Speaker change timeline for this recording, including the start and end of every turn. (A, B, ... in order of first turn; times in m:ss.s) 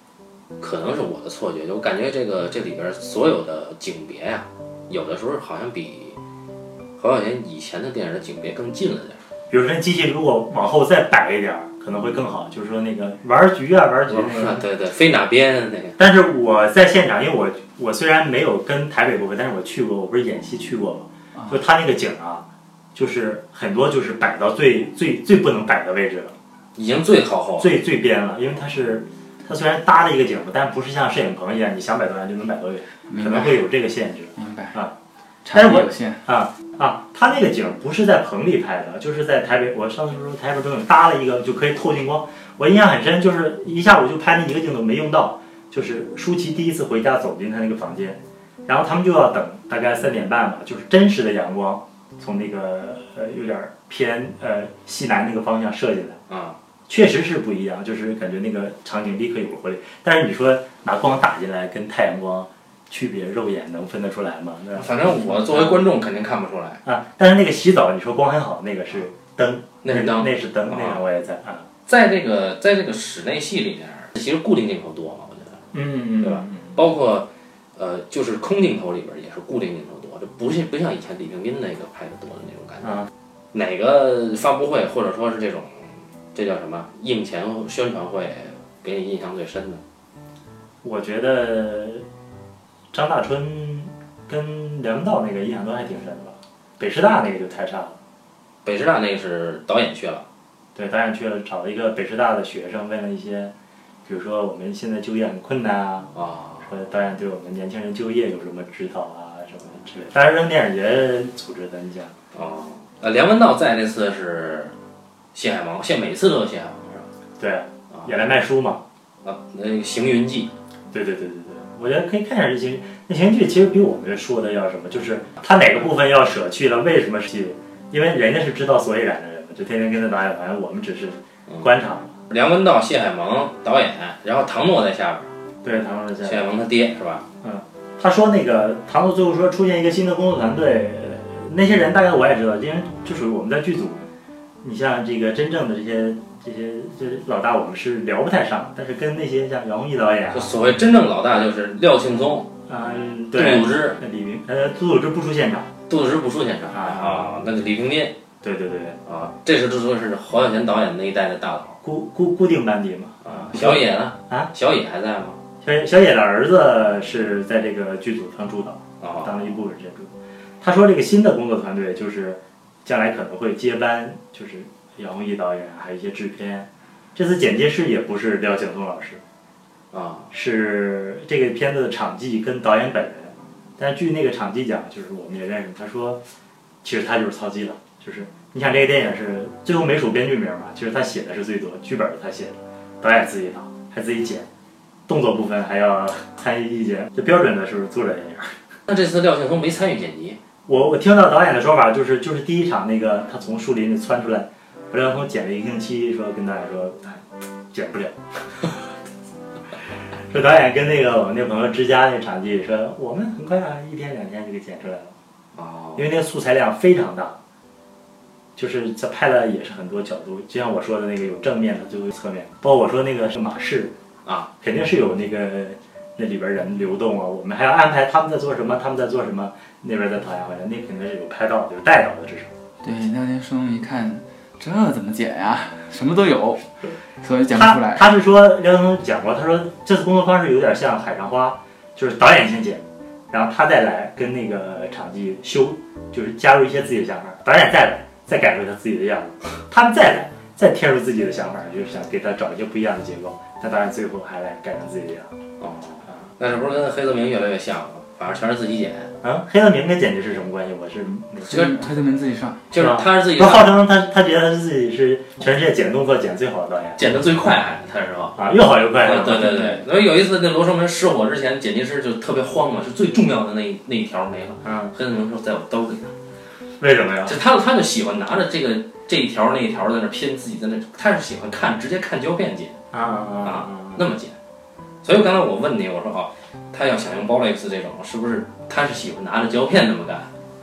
0:00.6-0:06.2 A
0:07.0-0:09.2 A
0:09.5-0:14.6 B
0:14.1-0:16.0 A
0:16.0-0:26.3 B
0:26.8-0:27.8 A
0:27.6-0:34.9 B
0:33.1-0:33.6 C
0:34.4-0:34.8 C
0:35.4-0:36.2 C
0:35.5-0:56.2 B
0:56.3-0:56.6 A
0:56.9-1:05.9 B
1:04.7-1:06.8 A
1:06.8-1:11.7 B
1:09.8-1:11.0 A
1:11.8-1:15.7 A
1:15.7-1:16.7 B
1:16.2-1:29.8 A
1:22.8-1:23.1 B
1:30.8-1:32.0 B
1:32.9-1:38.0 B
1:38.6-1:40.2 A
1:40.7-1:43.5 B
1:44.0-1:46.1 B
1:46.1-1:46.7 A
1:46.6-1:52.1 B
1:52.3-1:54.7 A
1:55.3-1:57.1 A
1:57.4-1:58.8 B
1:59.2-2:00.5 A
2:00.9-2:12.1 B
2:12.3-2:15.3 A
2:15.6-2:16.5 B
2:16.2-2:17.3 A
2:17.4-2:24.0 B
2:24.6-2:30.5 B
2:30.3-2:32.5 A
2:32.7-2:35.7 B
2:33.3-2:34.0 A
2:35.9-2:38.2 A
2:36.7-2:37.3 B
2:38.4-2:39.0 B
2:39.0-2:41.8 A
2:41.8-2:44.5 B
2:43.2-2:45.4 A
2:45.6-2:59.2 B
2:49.0-2:49.4 A
2:59.9-3:00.3 A
3:00.3-3:06.2 B
3:06.8-3:14.5 B
3:15.1-3:18.5 B
3:18.9-3:20.4 A
3:20.7-3:28.8 B
3:30.3-3:35.1 B
3:35.5-3:36.0 A
3:36.0-3:37.4 B
3:38.6-3:43.9 B
3:44.6-3:52.5 B
3:52.8-3:56.6 C
3:57.2-3:58.1 C
3:57.5-4:15.3 B
4:15.6-4:19.1 A
4:19.2-4:21.7 B
4:21.4-4:22.6 C
4:22.7-4:23.8 A
4:22.8-4:27.1 B
4:27.0-4:28.4 A
4:28.4-4:29.8 B
4:29.0-4:36.1 A
4:34.6-4:34.9 B
4:36.8-4:37.4 B
4:37.2-4:42.8 A
4:42.9-4:44.0 B
4:43.4-4:44.4 A
4:45.0-4:50.3 A